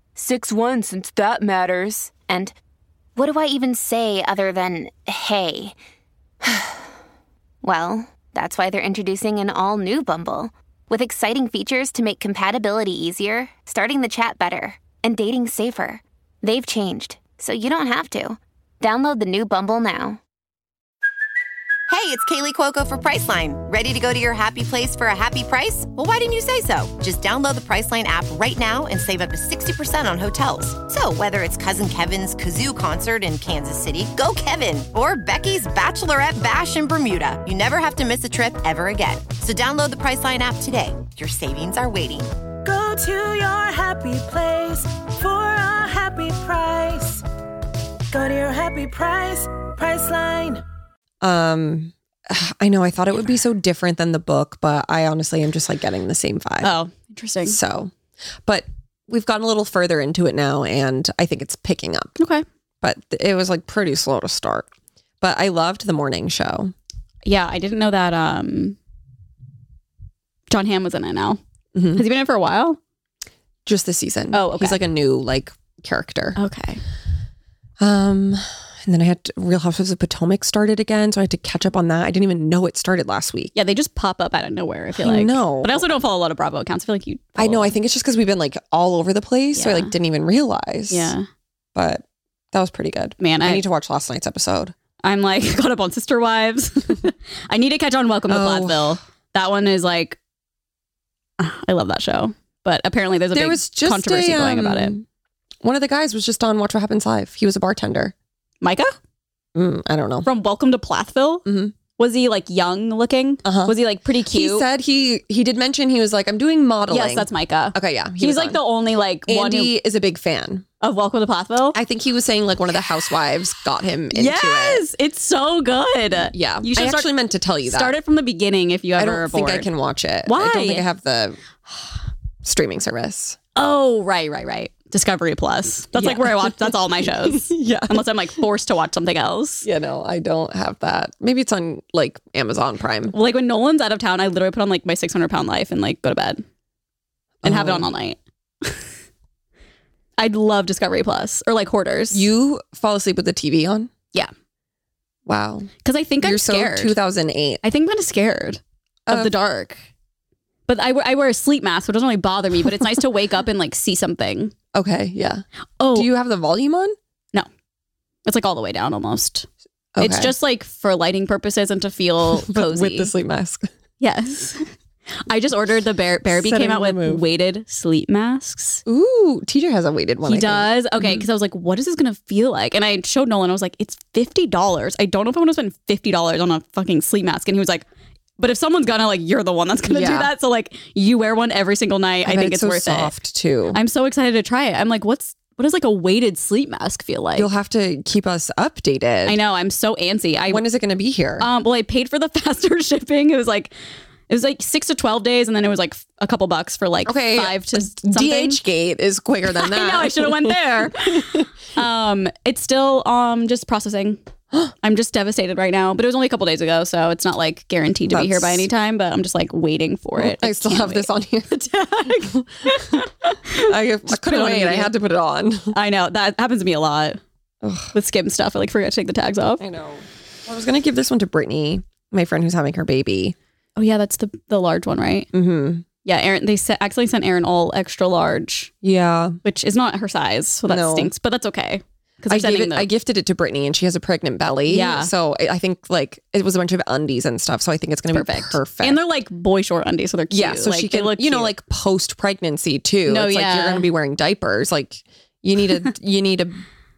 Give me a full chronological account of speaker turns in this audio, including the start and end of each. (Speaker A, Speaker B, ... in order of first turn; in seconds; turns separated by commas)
Speaker A: 0.2-2.2, Speaker B: 2.2-2.5, Speaker B: 3.2-5.8, Speaker B: 6.5-6.7, Speaker B: 7.6-20.2, Speaker C: 21.9-42.3, Speaker D: 42.6-47.2, Speaker D: 48.1-50.6, Speaker E: 51.2-56.7, Speaker F: 56.6-57.6, Speaker E: 57.5-57.9, Speaker E: 58.5-62.2, Speaker F: 62.2-62.4, Speaker E: 62.8-64.7, Speaker E: 65.2-66.7, Speaker F: 67.2-68.8, Speaker F: 70.5-71.4, Speaker E: 71.8-72.0, Speaker F: 72.0-72.8, Speaker E: 73.7-76.4, Speaker F: 74.3-74.8, Speaker F: 76.4-76.8, Speaker E: 77.8-83.5, Speaker F: 83.5-87.8, Speaker E: 85.0-85.8, Speaker E: 87.4-91.1, Speaker F: 89.5-89.9, Speaker F: 90.9-91.3, Speaker E: 91.8-94.7, Speaker F: 93.2-93.6, Speaker F: 95.0-100.2, Speaker E: 98.3-99.0, Speaker F: 101.4-104.9, Speaker E: 103.3-105.0, Speaker E: 105.6-108.1, Speaker F: 108.6-109.0, Speaker E: 109.5-110.3, Speaker F: 110.2-114.7, Speaker E: 111.5-111.7, Speaker E: 113.5-113.8, Speaker E: 114.3-118.6, Speaker F: 116.9-119.8, Speaker E: 119.3-120.7, Speaker F: 120.8-121.8, Speaker E: 121.8-124.8, Speaker F: 124.1-127.1, Speaker E: 126.3-127.9, Speaker F: 127.7-129.7, Speaker E: 129.0-131.4, Speaker F: 130.3-130.9, Speaker E: 132.4-133.4, Speaker F: 133.6-139.7, Speaker E: 136.0-138.1, Speaker E: 139.6-143.1, Speaker F: 143.1-146.4, Speaker E: 147.4-147.9, Speaker F: 147.4-148.8, Speaker F: 150.2-152.2, Speaker E: 152.1-153.9, Speaker E: 155.3-155.7, Speaker F: 155.8-157.0, Speaker E: 156.2-157.6, Speaker F: 157.6-159.8, Speaker F: 160.7-164.5, Speaker E: 164.7-167.0, Speaker F: 165.8-166.1, Speaker F: 168.3-169.5, Speaker E: 169.9-170.3, Speaker F: 170.0-173.1, Speaker E: 172.4-173.7, Speaker F: 174.0-174.6, Speaker F: 175.3-178.8, Speaker E: 176.3-177.2, Speaker E: 178.9-181.2, Speaker F: 180.2-187.8, Speaker F: 188.4-193.1, Speaker E: 189.9-190.3, Speaker E: 192.2-193.8, Speaker F: 193.7-197.5, Speaker E: 197.4-199.4, Speaker F: 199.2-200.6, Speaker E: 200.5-201.5, Speaker F: 201.4-203.7, Speaker F: 204.3-208.6, Speaker E: 207.1-211.4, Speaker F: 209.5-214.2, Speaker F: 214.8-224.9, Speaker E: 218.1-218.7, Speaker E: 220.2-221.5, Speaker E: 222.8-223.0, Speaker E: 223.6-225.7, Speaker F: 225.7-227.2, Speaker E: 227.6-227.9, Speaker F: 227.9-229.6, Speaker E: 229.6-233.3, Speaker F: 233.8-235.3, Speaker E: 235.3-235.8, Speaker F: 236.1-238.7, Speaker E: 238.8-239.4, Speaker F: 239.4-242.9, Speaker E: 240.7-241.1, Speaker E: 242.3-249.0, Speaker F: 244.7-245.1, Speaker F: 248.1-251.5, Speaker E: 250.3-256.6, Speaker F: 253.1-253.9